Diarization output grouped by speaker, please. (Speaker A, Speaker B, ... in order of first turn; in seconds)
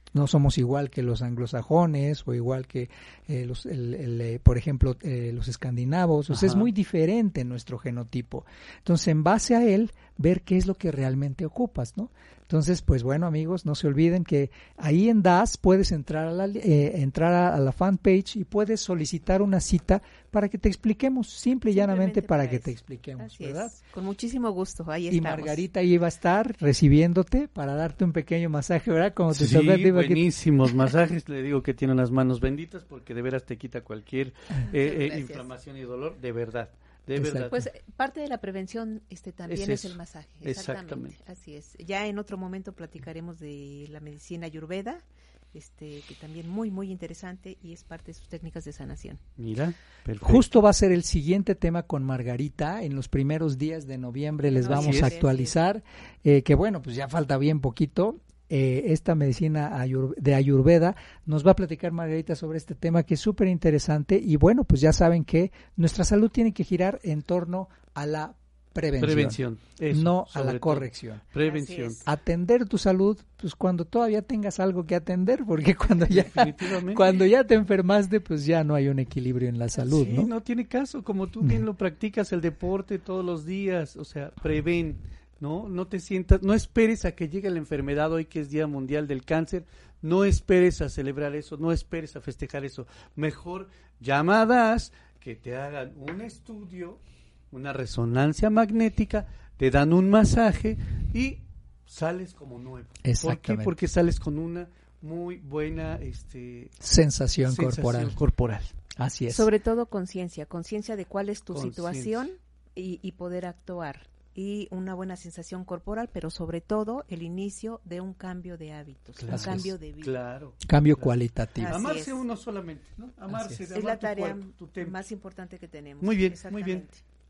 Speaker A: 0.1-23.7, 25.1-30.2, 37.2-37.5, 50.2-71.2, 72.1-80.3, 103.0-103.7, 106.8-108.2, 109.0-109.5, 119.3-119.7, 120.7-121.8, 123.3-123.7
Speaker B: 6.3-6.7, 29.3-37.6, 39.5-41.1, 49.4-50.5, 54.7-55.1, 69.0-72.0, 76.1-77.3, 79.9-97.0, 97.5-106.7, 107.4-108.8, 111.5-112.3, 119.2-121.2, 121.7-125.0, 126.0-126.8
Speaker C: 21.7-25.6, 34.7-35.5, 37.5-49.2, 54.5-55.6, 71.4-72.1, 109.3-120.2, 121.6-122.2, 123.7-127.0